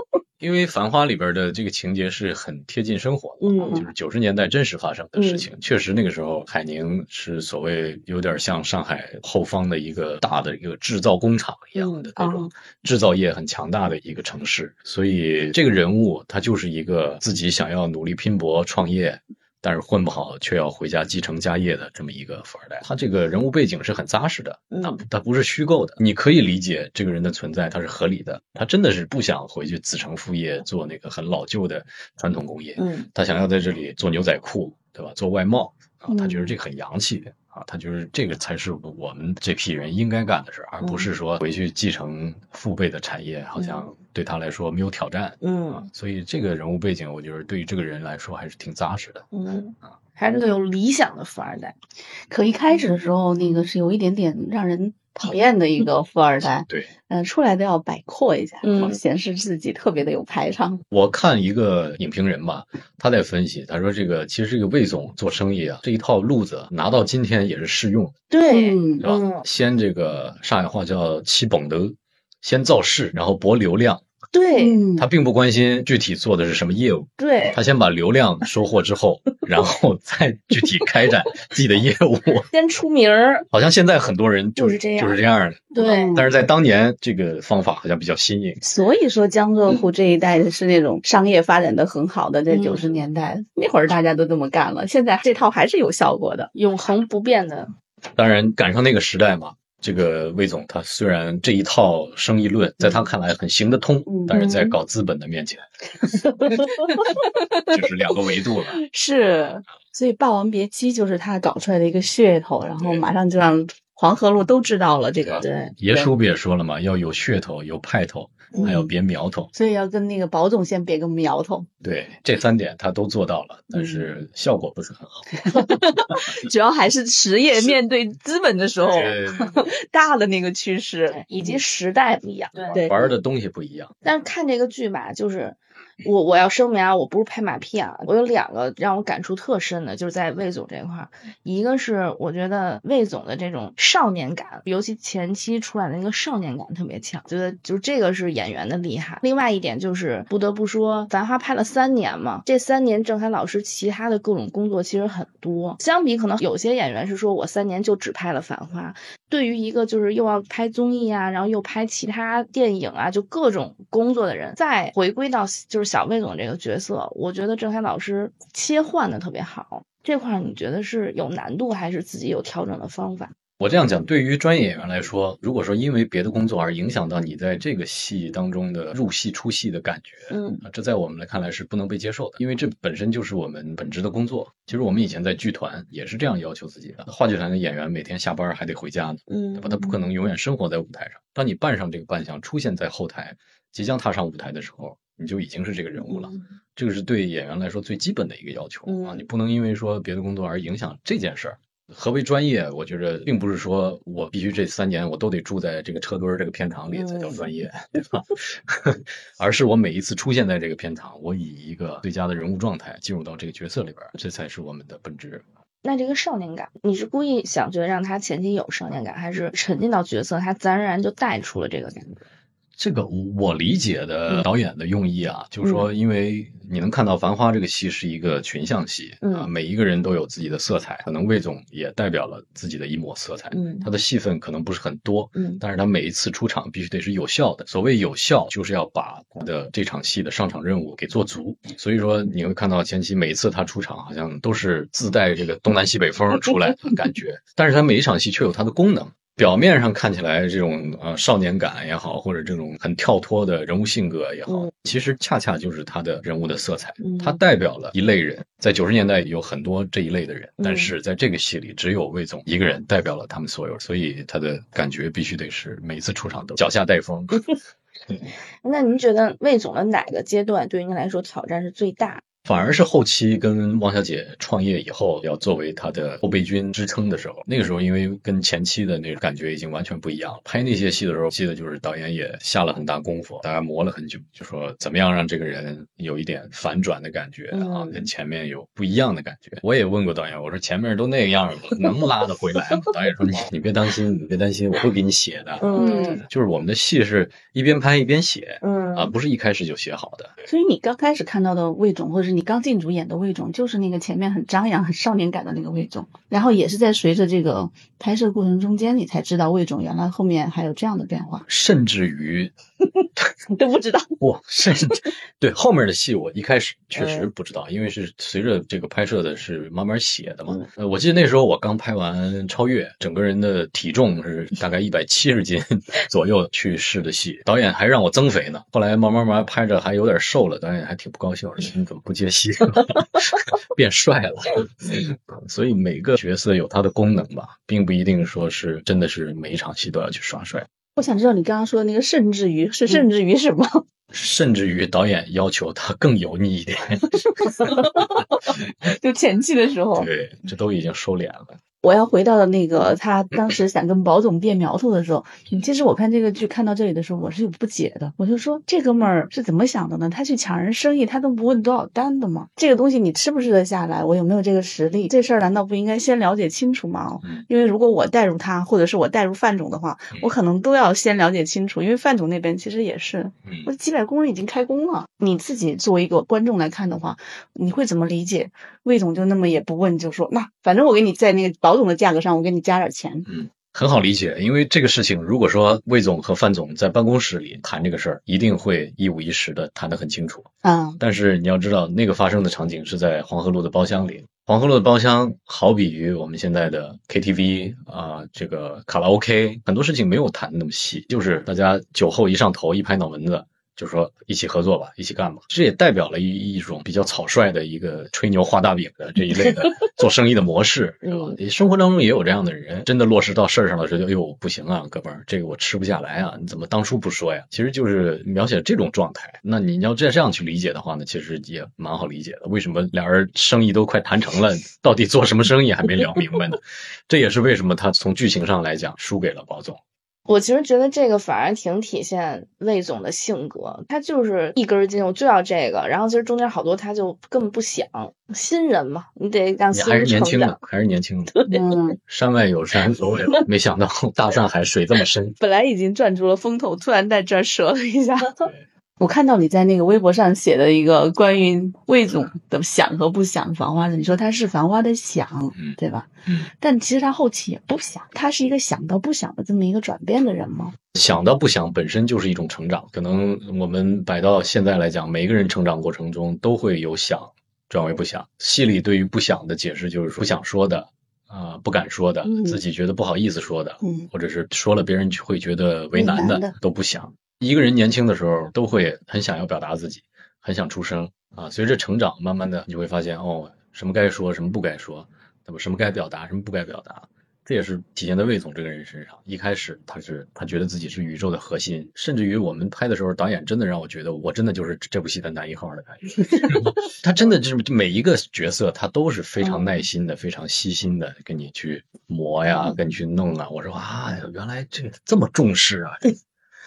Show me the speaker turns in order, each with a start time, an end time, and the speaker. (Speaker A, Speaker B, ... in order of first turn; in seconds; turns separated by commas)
Speaker A: 0.4-49.2, Speaker B: 3.4-3.8, Speaker C: 3.6-3.9, Speaker B: 5.2-5.5, Speaker B: 11.8-12.1, Speaker C: 12.2-12.5, Speaker B: 24.7-25.0, Speaker B: 32.8-33.1, Speaker C: 36.1-36.5, Speaker B: 40.8-41.1, Speaker B: 43.5-43.8, Speaker B: 45.4-45.8, Speaker B: 49.3-51.8, Speaker C: 52.3-60.8, Speaker B: 58.6-59.0, Speaker A: 60.9-68.1, Speaker B: 68.3-69.4, Speaker C: 68.4-69.0, Speaker A: 69.0-74.0, Speaker B: 74.3-74.8, Speaker C: 74.5-75.0, Speaker A: 75.0-82.5, Speaker B: 77.2-77.6, Speaker B: 82.5-83.5, Speaker A: 83.5-88.6, Speaker B: 84.5-85.2, Speaker B: 85.7-86.2, Speaker C: 85.8-86.3, Speaker C: 88.6-96.5, Speaker B: 92.5-92.9, Speaker B: 96.5-97.7, Speaker A: 98.2-105.6, Speaker C: 104.1-104.4, Speaker B: 104.3-104.8, Speaker B: 106.4-106.7, Speaker C: 107.0-107.3, Speaker A: 107.7-108.8, Speaker C: 108.8-116.1, Speaker A: 112.8-113.0, Speaker A: 115.2-119.5, Speaker B: 115.4-115.7, Speaker C: 118.6-118.9, Speaker C: 119.5-121.7, Speaker A: 121.8-125.7, Speaker C: 125.4-131.2, Speaker A: 128.9-129.6, Speaker B: 131.1-132.8, Speaker C: 132.7-133.1, Speaker A: 132.7-133.9, Speaker B: 134.0-173.3, Speaker A: 173.6-215.4, Speaker B: 180.3-180.6, Speaker B: 189.3-190.0, Speaker B: 196.1-196.4, Speaker B: 198.9-199.2, Speaker B: 206.9-207.4, Speaker B: 215.8-222.2, Speaker A: 222.8-267.4, Speaker B: 225.6-225.9, Speaker B: 229.2-229.5, Speaker B: 233.5-233.9, Speaker B: 235.3-235.6, Speaker B: 257.0-257.4, Speaker B: 260.6-260.9, Speaker B: 268.6-272.2, Speaker A: 272.4-300.3, Speaker B: 287.5-288.1, Speaker B: 295.6-296.2, Speaker C: 295.7-296.2, Speaker B: 298.6-299.1, Speaker C: 300.4-311.4, Speaker A: 311.5-312.5, Speaker C: 313.6-314.1, Speaker A: 314.2-340.6, Speaker B: 317.0-317.2, Speaker C: 341.0-343.8, Speaker A: 344.1-348.2, Speaker C: 348.8-350.1, Speaker A: 349.9-351.6, Speaker C: 351.8-383.2, Speaker A: 383.2-390.5, Speaker C: 390.6-391.0, Speaker A: 391.0-429.8, Speaker B: 411.0-411.4, Speaker B: 430.3-440.6, Speaker A: 439.7-441.3, Speaker B: 441.3-441.7, Speaker C: 441.5-442.0, Speaker A: 442.1-445.4, Speaker C: 445.4-448.4, Speaker C: 449.0-460.7, Speaker A: 455.5-456.5, Speaker A: 460.9-506.1, Speaker C: 473.8-474.1, Speaker C: 475.9-476.5, Speaker B: 499.4-499.8